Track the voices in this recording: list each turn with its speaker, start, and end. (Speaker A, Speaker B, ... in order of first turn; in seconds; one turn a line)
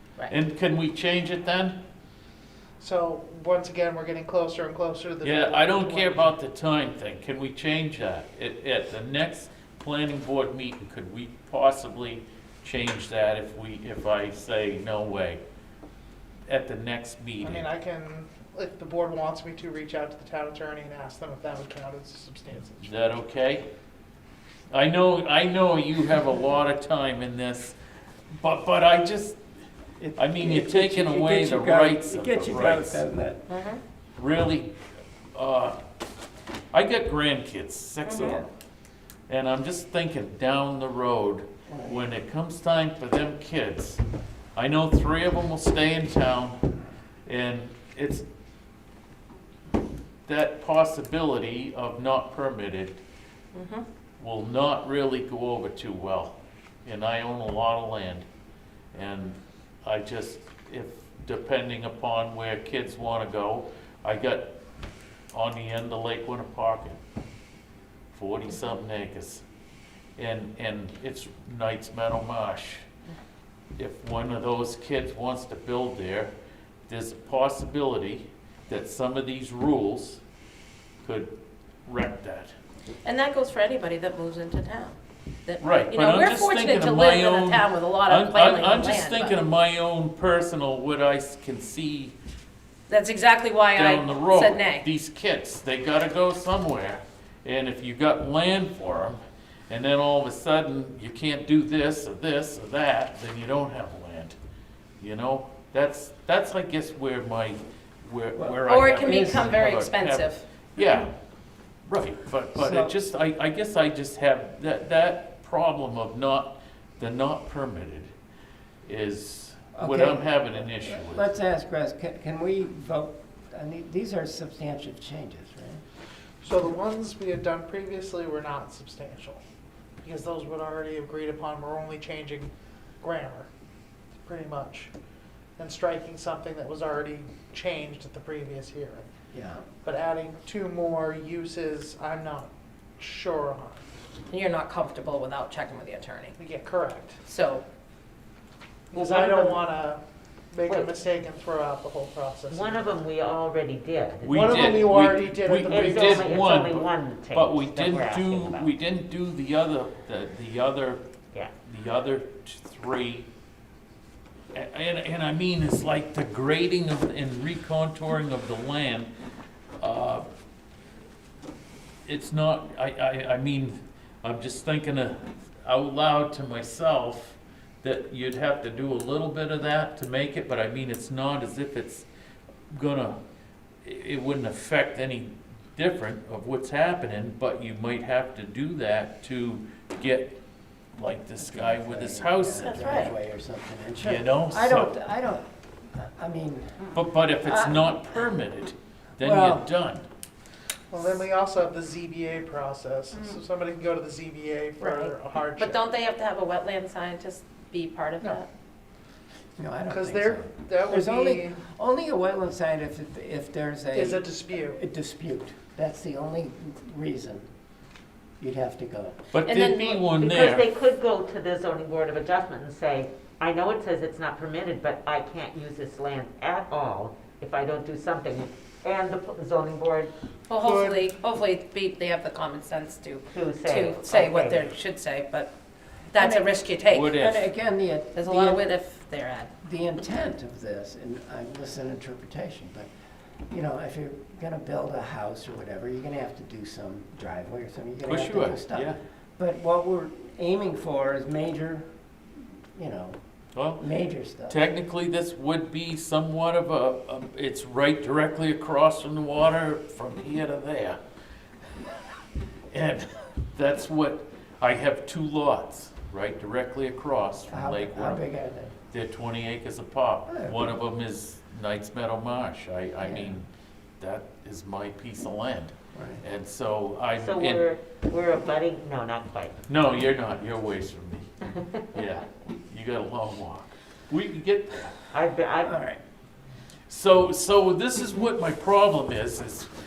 Speaker A: 0.3-1.8
Speaker B: 2.8-6.3
Speaker A: 5.2-15.4
Speaker A: 16.5-17.6
Speaker B: 17.4-23.0
Speaker A: 22.8-23.7
Speaker A: 24.7-27.8
Speaker A: 28.4-29.4
Speaker C: 30.0-33.4
Speaker A: 30.1-33.0
Speaker D: 33.5-33.8
Speaker A: 34.2-34.7
Speaker A: 35.3-35.8
Speaker A: 36.7-38.5
Speaker D: 38.0-38.4
Speaker C: 38.1-38.4
Speaker A: 39.3-44.0
Speaker C: 41.7-42.1
Speaker A: 44.5-46.6
Speaker A: 47.2-48.2
Speaker A: 50.2-53.0
Speaker D: 53.5-53.8
Speaker A: 54.2-58.2
Speaker A: 58.9-64.5
Speaker A: 65.3-67.0
Speaker A: 68.1-69.4
Speaker A: 70.2-72.8
Speaker A: 73.8-76.3
Speaker A: 76.9-80.2
Speaker A: 81.0-81.3
Speaker A: 81.8-82.5
Speaker D: 83.0-89.4
Speaker A: 85.6-92.1
Speaker D: 92.9-94.8
Speaker A: 93.7-104.4
Speaker A: 105.0-111.1
Speaker C: 108.3-109.5
Speaker D: 108.6-111.1
Speaker A: 111.8-118.1
Speaker C: 112.5-113.0
Speaker A: 118.8-121.3
Speaker C: 119.7-125.8
Speaker B: 126.4-129.4
Speaker B: 130.0-133.5
Speaker B: 134.2-134.9
Speaker B: 135.6-139.1
Speaker C: 139.3-139.7
Speaker B: 139.8-143.8
Speaker D: 144.3-146.3
Speaker B: 146.4-147.2
Speaker D: 147.2-147.6
Speaker B: 148.9-153.0
Speaker D: 148.9-149.3
Speaker E: 152.5-154.4
Speaker A: 154.2-161.0
Speaker B: 154.3-156.5
Speaker E: 155.7-158.7
Speaker A: 161.6-163.3
Speaker A: 164.5-169.1
Speaker A: 169.8-170.2
Speaker A: 172.1-182.1
Speaker A: 182.7-183.2
Speaker A: 183.8-190.4
Speaker A: 190.9-193.0
Speaker C: 191.4-198.3
Speaker D: 192.6-193.1
Speaker A: 194.0-194.9
Speaker A: 196.9-200.1
Speaker C: 199.2-199.7
Speaker B: 200.9-205.8
Speaker D: 204.8-208.5
Speaker C: 209.6-217.5
Speaker B: 209.9-211.6
Speaker B: 213.9-214.8
Speaker C: 218.4-219.2
Speaker A: 219.3-220.7
Speaker D: 219.4-220.1
Speaker E: 220.2-230.1
Speaker D: 230.5-235.5
Speaker B: 230.6-231.0
Speaker E: 233.3-234.7
Speaker C: 236.1-236.6
Speaker D: 236.1-237.2
Speaker A: 236.9-237.5
Speaker C: 237.1-238.7
Speaker D: 238.1-239.5
Speaker C: 239.6-242.9
Speaker C: 243.5-251.9
Speaker A: 248.1-249.0
Speaker C: 252.7-253.2
Speaker A: 253.5-253.8
Speaker C: 253.8-254.6
Speaker A: 254.5-261.0
Speaker A: 262.7-268.2
Speaker C: 267.5-268.7
Speaker A: 268.9-273.4
Speaker C: 270.2-270.8
Speaker C: 273.0-273.4
Speaker A: 274.0-277.7
Speaker C: 275.9-276.2
Speaker E: 277.2-279.6
Speaker A: 279.7-281.3
Speaker A: 281.9-285.0
Speaker E: 285.1-285.7
Speaker C: 285.6-286.0
Speaker A: 286.9-289.7